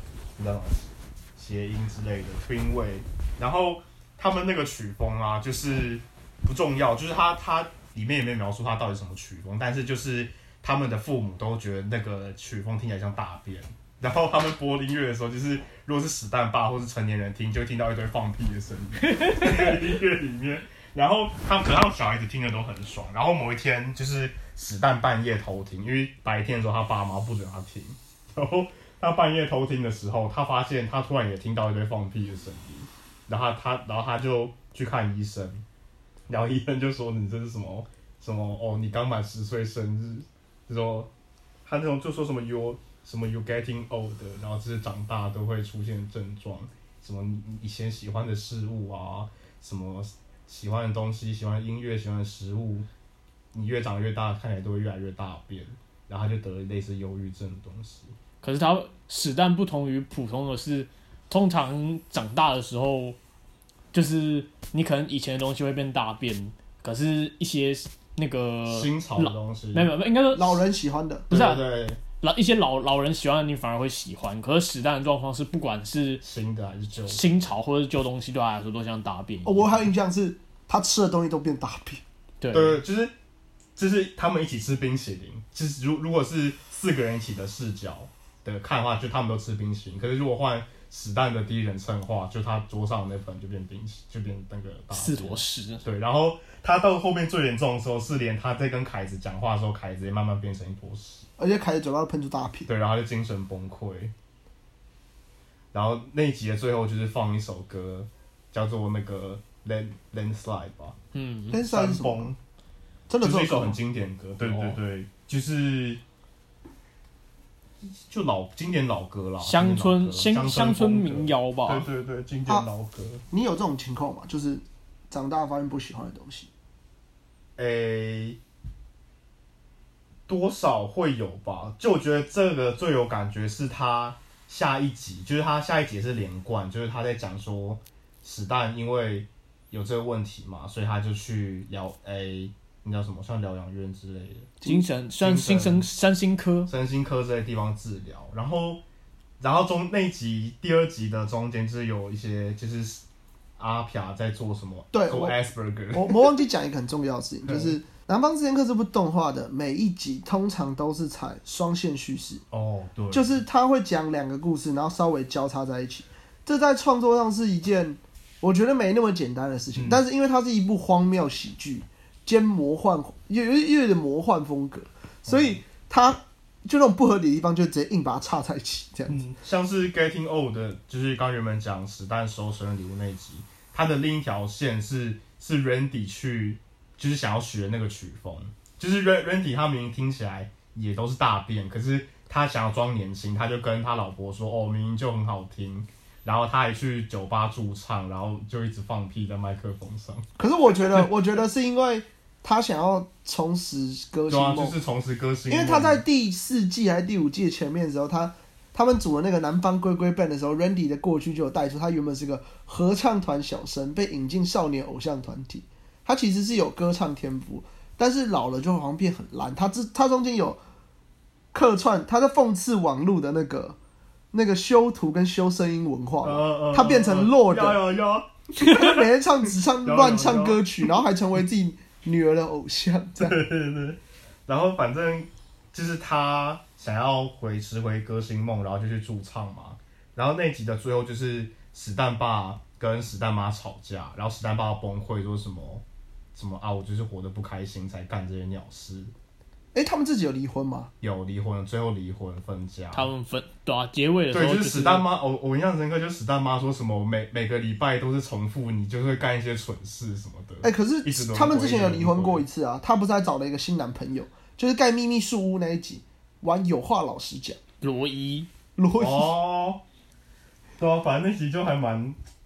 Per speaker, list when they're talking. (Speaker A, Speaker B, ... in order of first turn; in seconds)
Speaker A: 0.4-35.6, 36.3-41.1, 41.6-52.9, 53.5-58.1, 68.7-69.9, 71.3-72.0, 76.2-77.3, 82.5-83.1, 83.8-101.3, 102.7-104.1, 105.7-111.0, 111.6-112.4, 113.2-116.0, 117.8-123.2, 127.6-128.4, 130.3-144.5, 145.2-145.9, 146.7-148.8, 149.4-153.0, 153.6-156.4, 157.4-157.8, 162.5-163.4, 169.7-170.0, 175.3-175.6, 179.1-200.3, 200.8-201.1, 204.3-206.0, 226.2-229.1, 229.8-230.9, 233.2-245.8, 246.3-249.1, 251.0-253.1, 254.3-262.4, 269.0-269.8, 270.8-272.2
Speaker B: 19.1-19.8, 58.4-63.2, 63.9-70.6, 71.3-76.2, 77.1-79.7, 82.4-82.8, 94.9-95.8, 111.1-111.6, 114.4-114.8, 119.4-121.8, 144.6-146.7, 252.9-255.1, 267.8-268.5
Speaker C: 70.3-71.3, 79.4-82.0, 101.4-102.7, 111.5-112.3, 113.1-113.8, 123.3-126.5, 144.6-144.8, 154.9-155.4, 155.9-162.4, 163.1-179.2, 200.4-204.8, 205.5-220.6, 221.5-223.8, 224.3-227.8, 228.6-233.4, 249.7-250.9, 260.6-267.6, 268.8-269.3